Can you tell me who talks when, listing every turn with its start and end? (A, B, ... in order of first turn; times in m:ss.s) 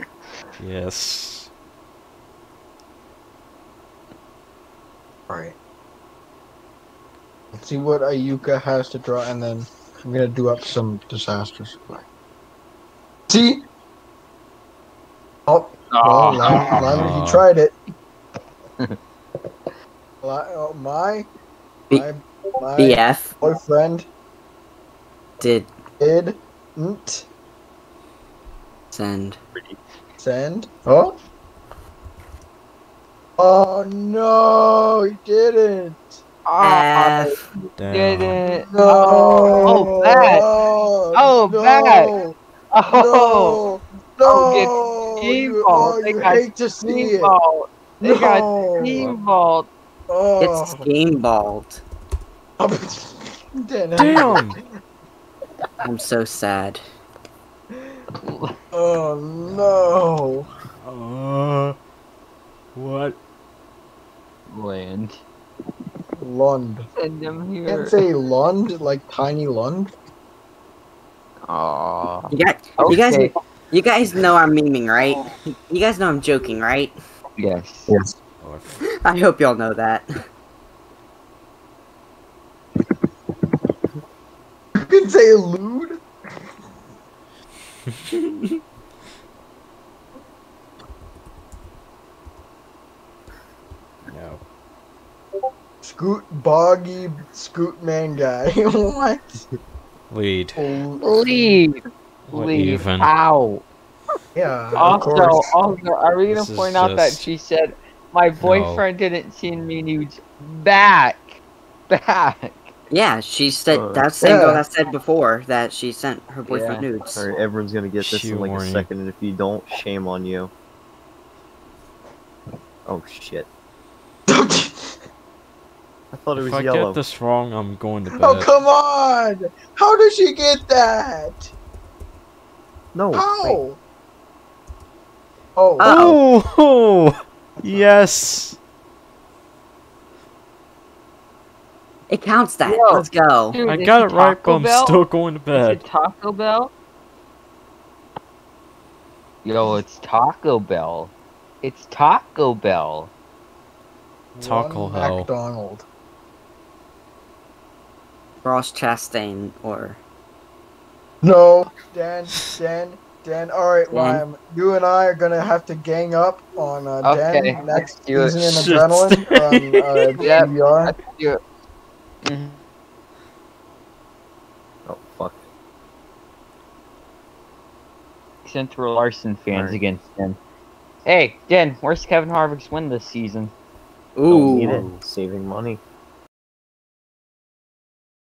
0:00.6-0:01.5 A
0:05.3-0:05.6 B
0:07.5-0:12.0 B
0:13.3-0:13.6 B
0:15.5-0:17.7 B
0:15.9-0:16.9 C
0:16.8-0:17.4 A
0:20.2-0:21.3 B
0:21.9-0:24.0 B
0:22.8-0:23.4 D
0:25.4-0:25.7 D
0:26.0-0:27.3 B
0:28.9-0:29.4 D
0:30.2-0:31.2 B
0:33.4-0:36.2 B
0:36.4-0:40.5 C
0:36.6-0:37.4 D
0:37.8-0:38.4 A
0:38.7-0:42.4 B
0:41.1-0:42.1 C
0:42.7-0:43.6 C
0:42.9-0:47.3 B
0:44.2-0:49.7 C
0:48.0-0:49.1 B
0:50.1-0:50.9 B
0:50.4-0:51.8 D
0:52.6-0:54.7 B
0:54.0-0:54.6 A
0:55.8-0:56.8 D
0:57.7-0:58.0 B
0:58.1-0:58.6 C
0:58.7-1:00.5 B
0:59.5-1:00.0 A
1:00.8-1:01.8 A
1:02.7-1:03.2 A
1:04.5-1:05.2 C
1:06.2-1:06.9 B
1:07.0-1:08.0 C
1:07.7-1:09.9 B
1:11.5-1:13.3 C
1:12.3-1:16.9 D
1:17.4-1:17.9 C
1:17.9-1:18.1 B
1:18.4-1:18.8 A
1:19.0-1:20.1 D
1:24.8-1:26.0 B
1:34.1-1:34.4 A
1:35.8-1:39.4 B
1:40.1-1:40.6 A
1:40.6-1:41.6 B
1:41.0-1:43.6 C
1:42.3-1:43.1 A
1:44.3-1:45.5 B
1:44.7-1:52.7 C
1:44.8-1:45.3 A
1:46.3-1:47.3 A
1:48.4-1:48.8 A
1:52.9-1:57.2 D
1:53.7-1:54.1 E
1:54.2-1:54.6 B
1:56.5-1:56.9 C
1:57.1-2:00.5 E
1:58.0-1:58.9 A
2:02.8-2:03.5 E
2:04.3-2:05.0 B
2:06.1-2:07.0 E
2:06.4-2:08.5 A
2:08.1-2:11.5 B
2:12.9-2:13.6 E
2:13.1-2:13.8 B
2:15.6-2:16.1 B
2:15.8-2:16.2 D
2:15.8-2:18.6 A
2:22.1-2:23.6 D
2:22.6-2:26.7 C
2:23.6-2:25.8 A
2:29.4-2:33.1 C
2:34.3-2:35.8 B
2:34.4-2:35.3 A
2:38.4-2:40.0 D
2:41.2-2:51.0 B
2:43.9-2:44.2 C
2:47.0-2:48.4 C
2:48.4-2:50.1 A
2:50.2-2:51.4 C
2:52.2-2:52.6 C
2:54.8-2:55.4 E
2:58.4-3:00.4 C
2:59.5-2:59.8 E
3:01.0-3:03.5 C
3:04.2-3:05.0 D
3:04.3-3:05.8 E